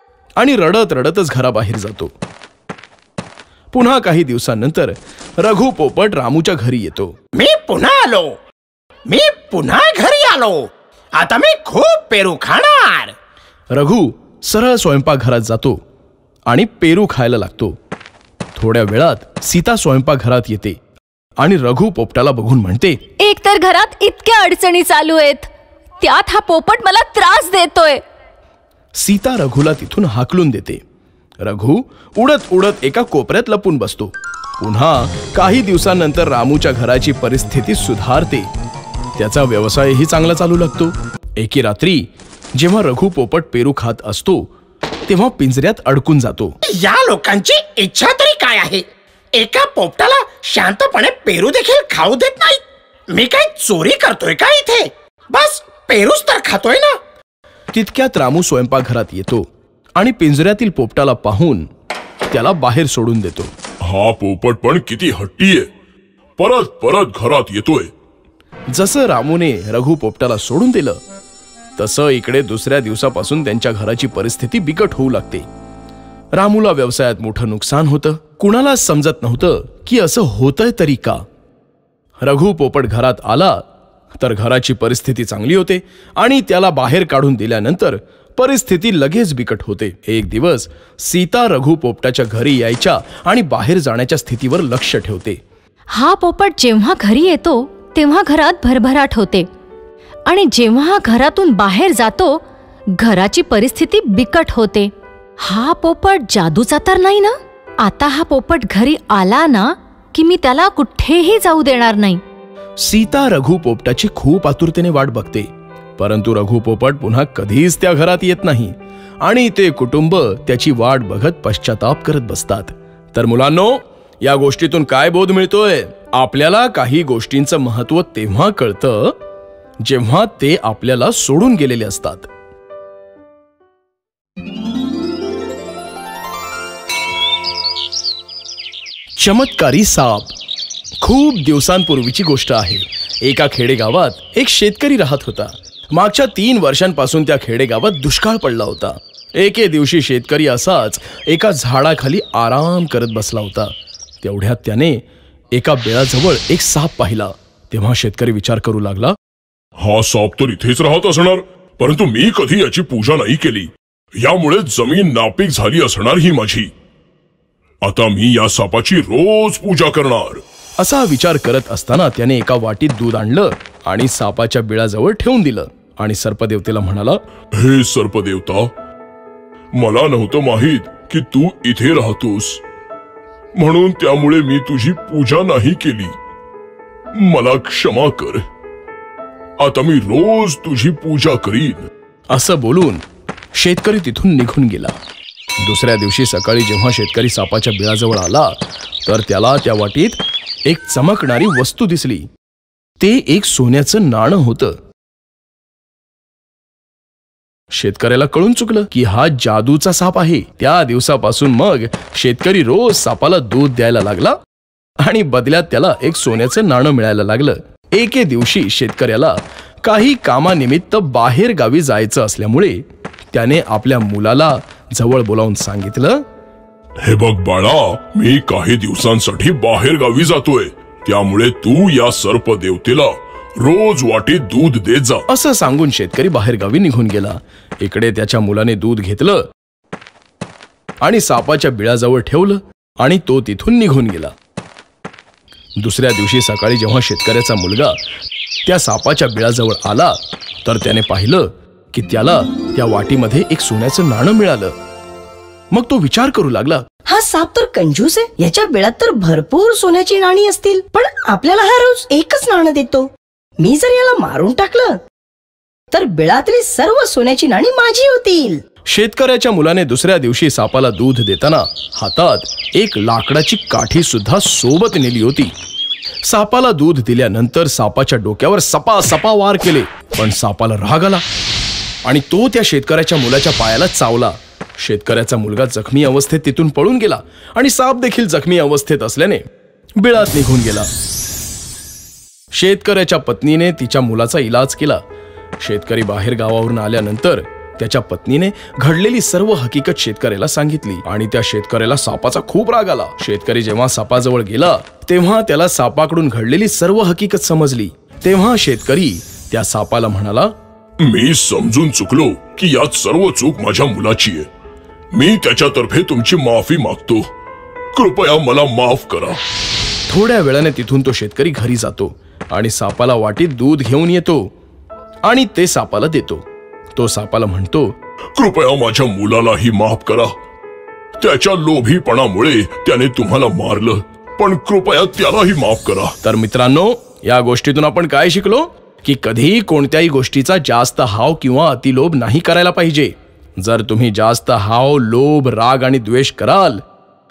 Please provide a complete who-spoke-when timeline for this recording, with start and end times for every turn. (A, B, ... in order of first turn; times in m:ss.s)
0:00.4-0:02.1 A
0:03.7-0:07.1 A
0:07.3-0:08.3 B
0:09.1-0:13.1 B
0:13.7-0:15.8 A
0:16.5-0:17.8 A
0:18.5-0:20.8 A
0:21.4-0:23.0 A
0:23.2-0:28.0 C
0:29.0-0:30.8 A
0:31.4-0:38.5 A
0:39.2-0:44.4 A
0:45.1-0:46.5 A
0:46.7-0:56.9 B
0:57.7-0:59.4 A
1:00.0-1:01.7 A
1:02.3-1:03.5 A
1:03.8-1:05.7 D
1:06.4-1:07.9 D
1:08.7-1:11.0 A
1:11.8-1:15.4 A
1:16.4-1:21.2 A
1:22.2-1:23.6 A
1:24.2-1:35.4 A
1:35.9-1:39.5 C
1:40.3-1:42.4 C
1:43.0-1:52.2 C
1:52.8-2:09.2 A
2:09.8-2:12.3 A
2:19.2-2:20.3 A
2:21.0-2:39.2 A
2:39.8-2:46.7 D
2:47.8-2:50.4 D
2:50.8-2:57.2 A
2:57.6-2:58.7 D
2:59.8-3:02.6 D
3:03.6-3:06.2 D
3:07.2-3:08.4 D
3:09.6-3:11.9 D
3:12.3-3:13.0 A
3:13.6-3:14.9 A
3:15.6-3:22.3 A
3:23.0-3:24.8 A
3:27.7-3:34.4 A
3:35.0-3:46.2 A
3:47.0-3:55.2 D
3:55.3-3:59.4 A
4:01.0-4:04.3 A
4:05.8-4:08.0 A
4:08.6-4:14.7 A
4:15.7-4:16.8 A
4:17.1-4:23.1 E
4:23.6-4:25.0 E
4:25.9-4:28.6 E
4:28.9-4:35.5 A
4:36.3-4:41.2 A
4:42.0-4:49.4 A
4:50.0-4:50.9 A
4:52.5-4:55.0 A
4:55.6-5:10.5 A
5:11.0-5:14.5 D
5:15.1-5:17.3 D
5:17.9-5:19.4 D
5:20.1-5:24.5 A
5:25.2-5:27.9 A
5:28.4-5:30.3 D
5:31.2-5:36.1 D
5:36.2-5:46.8 A